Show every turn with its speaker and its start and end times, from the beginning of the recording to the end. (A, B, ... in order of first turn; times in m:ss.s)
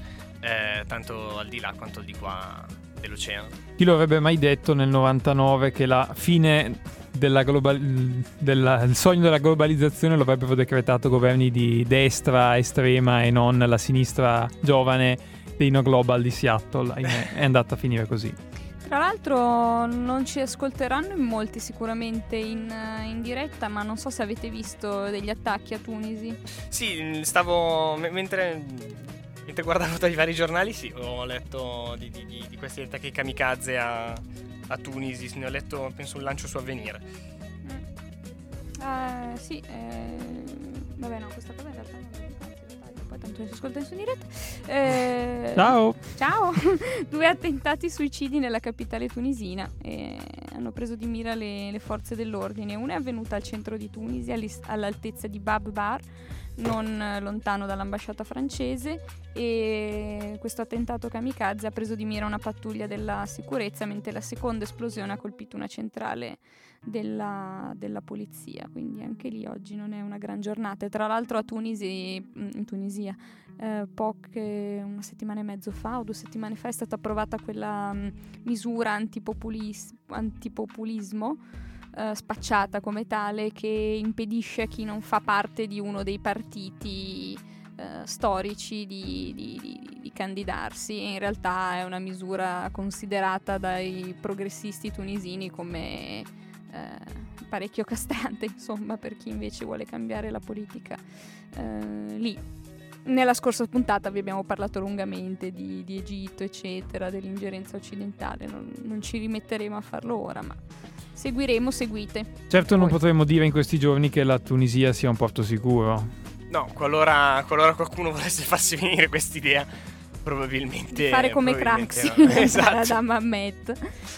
0:00.4-0:03.5 A
0:03.8-0:18.4 B
0:18.8-0:26.4 C
0:26.7-0:37.0 A
0:38.8-1:21.4 C
0:45.6-0:46.0 B
1:21.9-1:42.4 C
1:43.0-1:50.6 C
1:51.1-1:53.0 C
1:52.5-1:56.1 B
1:56.5-1:59.7 A
2:00.2-2:02.9 A
2:00.9-2:03.9 C